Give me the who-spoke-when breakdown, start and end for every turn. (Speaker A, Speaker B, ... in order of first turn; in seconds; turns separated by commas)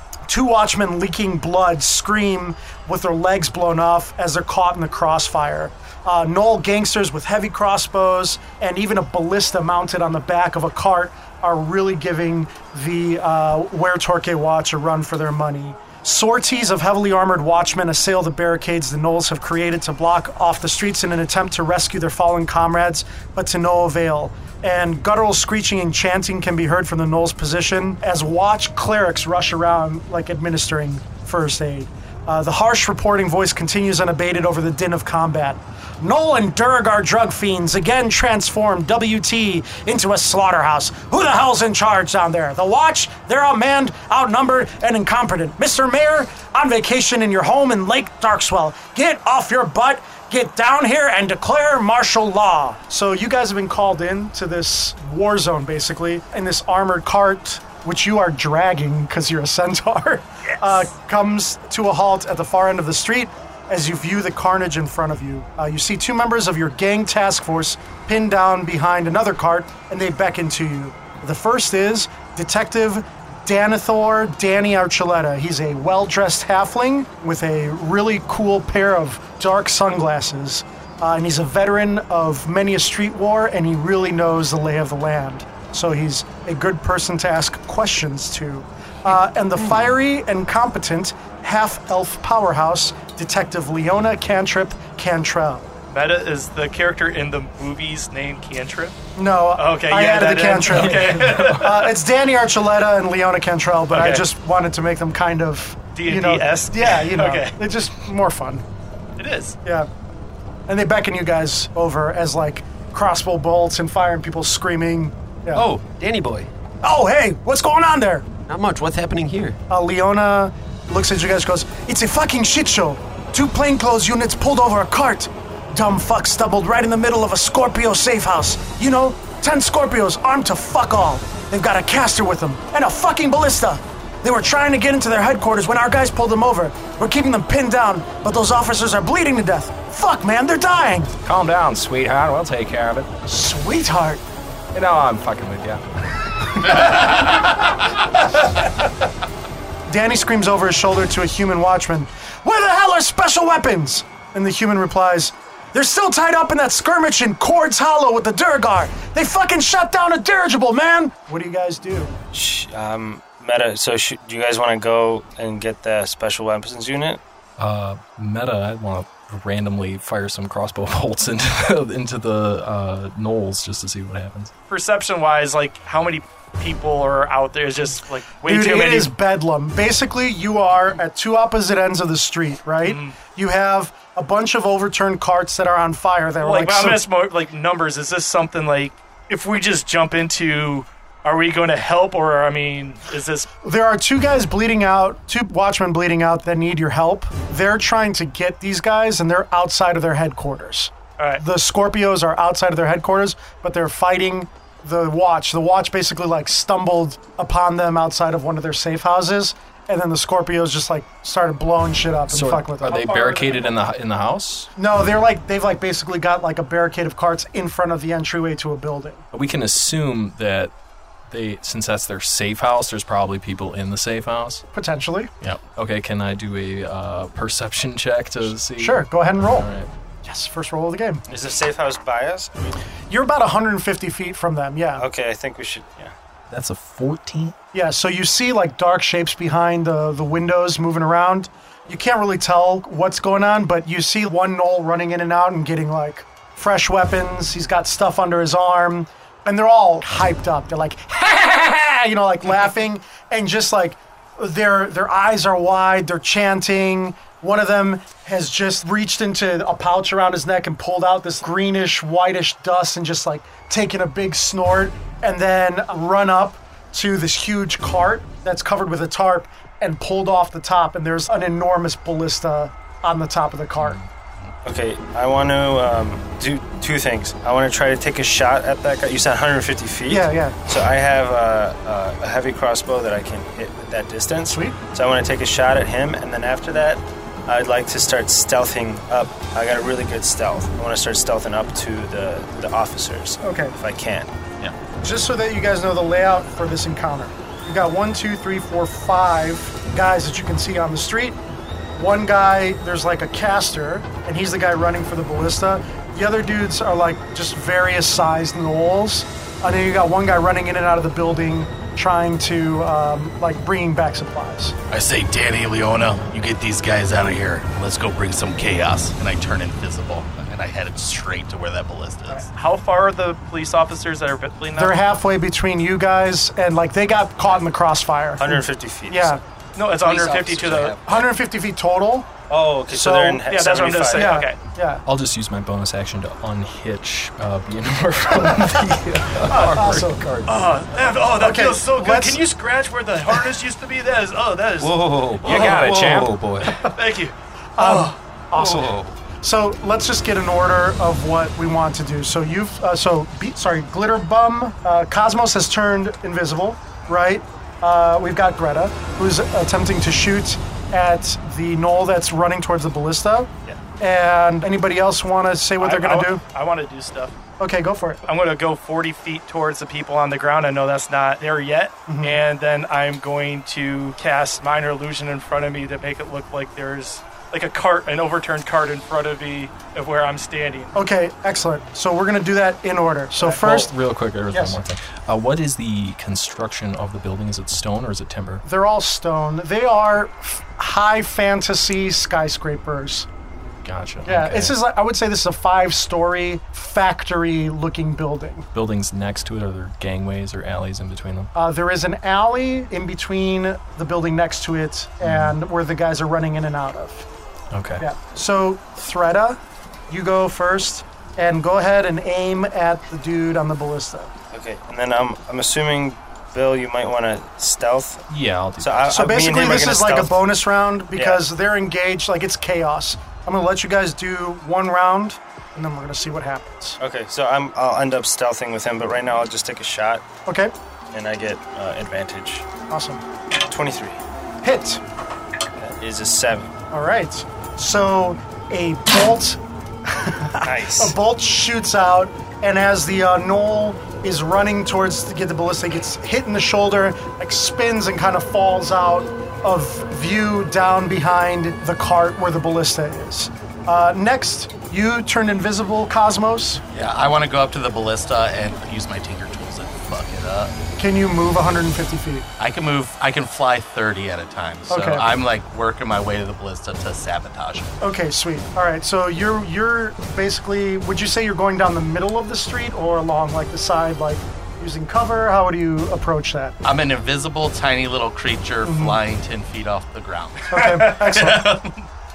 Speaker A: 0.3-95.7, Speaker B: 60.6-60.9, Speaker B: 95.9-99.0, Speaker A: 99.2-108.6, Speaker B: 99.5-101.9, Speaker C: 100.7-101.6, Speaker B: 103.9-104.3, Speaker B: 105.9-107.6, Speaker B: 109.2-109.6, Speaker A: 110.7-115.7, Speaker D: 115.5-116.5, Speaker A: 116.8-118.2, Speaker D: 118.5-119.6, Speaker A: 119.7-141.1, Speaker C: 141.2-143.1, Speaker A: 143.3-144.2, Speaker C: 144.7-145.8, Speaker A: 146.8-147.2, Speaker A: 149.9-162.1, Speaker E: 162.3-167.2, Speaker C: 167.6-174.5, Speaker B: 174.7-179.1, Speaker A: 178.4-187.0, Speaker B: 182.8-183.2, Speaker B: 186.4-193.5, Speaker A: 193.6-213.7, Speaker C: 212.3-214.7, Speaker A: 214.8-219.2, Speaker C: 219.3-220.7, Speaker C: 221.3-224.6, Speaker A: 224.7-225.3, Speaker C: 225.5-229.9, Speaker A: 228.8-229.7, Speaker A: 230.2-231.2, Speaker E: 231.3-232.8, Speaker A: 233.1-235.0, Speaker E: 235.0-236.1, Speaker C: 236.5-237.6, Speaker A: 237.7-274.0, Speaker C: 273.8-274.1, Speaker E: 274.6-294.3, Speaker A: 280.1-280.6, Speaker A: 284.5-284.8, Speaker A: 293.4-293.7, Speaker A: 295.0-301.4, Speaker A: 301.9-314.7, Speaker F: 314.9-322.5, Speaker B: 322.3-325.0, Speaker A: 324.7-329.4, Speaker E: 328.4-329.4, Speaker B: 329.8-331.0, Speaker D: 330.0-331.0, Speaker A: 331.0-332.3, Speaker E: 332.5-334.4, Speaker A: 332.9-333.4, Speaker B: 333.4-334.6, Speaker A: 334.1-335.0, Speaker C: 335.1-340.6, Speaker A: 339.5-340.4, Speaker B: 340.5-346.0, Speaker A: 341.3-342.4, Speaker D: 344.8-346.8, Speaker C: 345.4-346.4, Speaker B: 346.6-348.2, Speaker A: 347.8-366.4, Speaker D: 348.5-349.2, Speaker B: 365.8-367.4, Speaker A: 367.6-368.2, Speaker B: 368.2-380.9, Speaker A: 372.1-372.4, Speaker A: 380.9-383.9, Speaker C: 383.4-388.6, Speaker A: 384.5-384.8, Speaker A: 388.6-393.3, Speaker C: 393.8-394.8, Speaker A: 394.2-398.7, Speaker C: 398.7-401.5, Speaker A: 401.5-407.3, Speaker C: 405.2-405.6, Speaker C: 407.7-408.1, Speaker A: 408.0-414.3, Speaker E: 414.5-418.2, Speaker C: 418.3-419.2, Speaker E: 418.8-420.4, Speaker A: 419.1-427.0, Speaker E: 421.1-421.4, Speaker E: 427.0-430.2, Speaker A: 430.4-430.7, Speaker E: 431.1-432.6, Speaker A: 432.9-433.2, Speaker E: 433.6-434.2, Speaker A: 434.6-435.0, Speaker E: 435.8-436.7, Speaker A: 436.9-456.8, Speaker E: 440.6-441.1, Speaker F: 456.9-460.8, Speaker A: 461.0-462.5, Speaker F: 462.6-468.0, Speaker A: 464.9-465.2, Speaker A: 468.0-476.8, Speaker F: 476.8-482.0, Speaker A: 478.8-479.2, Speaker A: 480.7-481.7